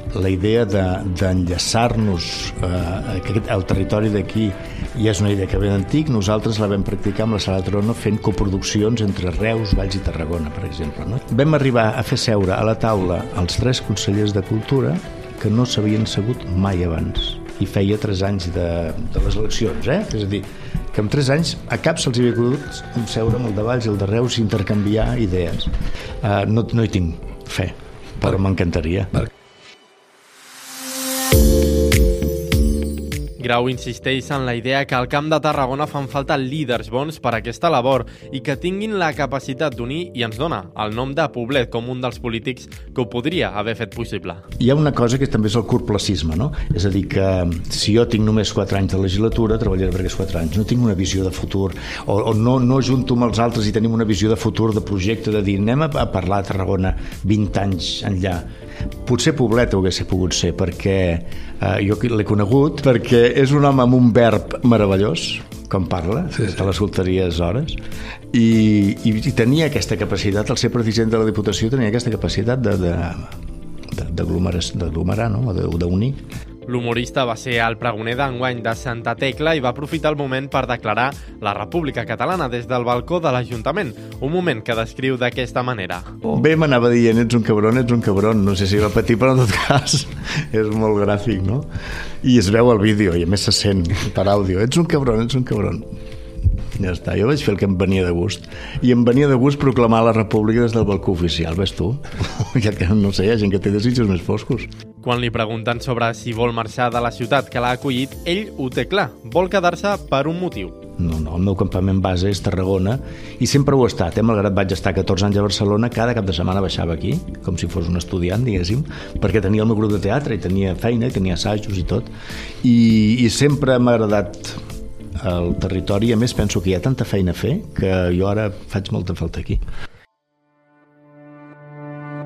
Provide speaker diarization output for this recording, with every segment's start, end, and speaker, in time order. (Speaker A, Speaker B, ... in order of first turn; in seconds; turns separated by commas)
Speaker A: 0.1-29.3, Speaker B: 33.4-44.4, Speaker A: 44.6-58.5, Speaker A: 59.0-67.8, Speaker A: 68.3-73.4, Speaker A: 73.9-76.2, Speaker B: 76.7-86.2, Speaker A: 86.2-91.7, Speaker A: 92.2-95.8, Speaker A: 96.8-104.7, Speaker B: 105.0-110.8, Speaker A: 111.0-124.6, Speaker A: 125.2-129.6